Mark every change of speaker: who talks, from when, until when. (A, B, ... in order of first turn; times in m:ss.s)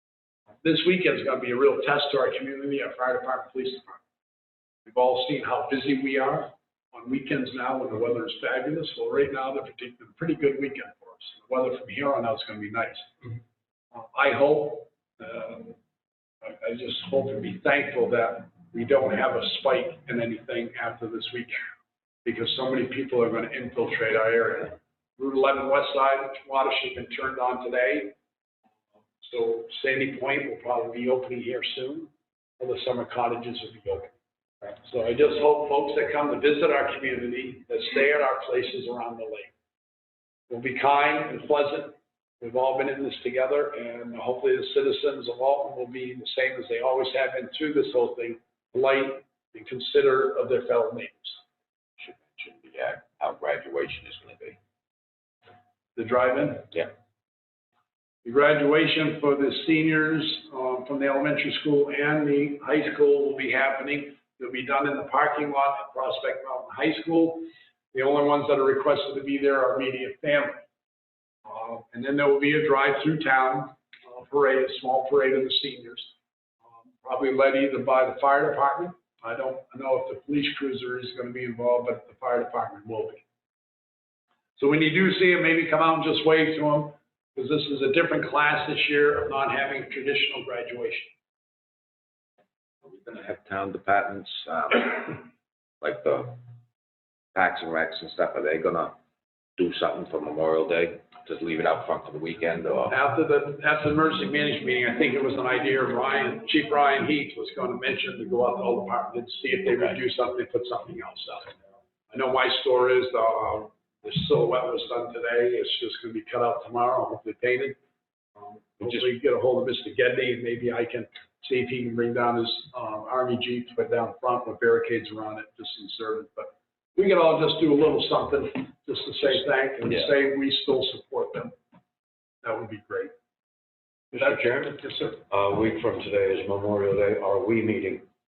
0:00.6-0:04.0 A
0:04.9-0:13.2 A
0:13.9-0:15.8 A
0:16.4-0:21.7 A
0:22.2-0:28.2 A
0:29.2-0:34.2 A
0:34.8-0:39.5 A
0:40.5-0:51.4 A
0:52.0-0:54.6 B
0:56.0-0:56.7 A
0:58.2-1:10.6 A
1:11.4-1:16.1 A
1:17.0-1:23.2 A
1:24.6-1:31.1 A
1:32.8-1:35.3 B
1:35.8-1:36.4 B
1:37.4-1:39.0 B
1:39.6-1:43.0 B
1:42.9-1:51.6 A
1:52.1-1:57.8 A
1:58.4-2:11.6 A
2:12.4-2:13.1 A
2:14.1-2:15.2 A
2:14.1-2:18.0 C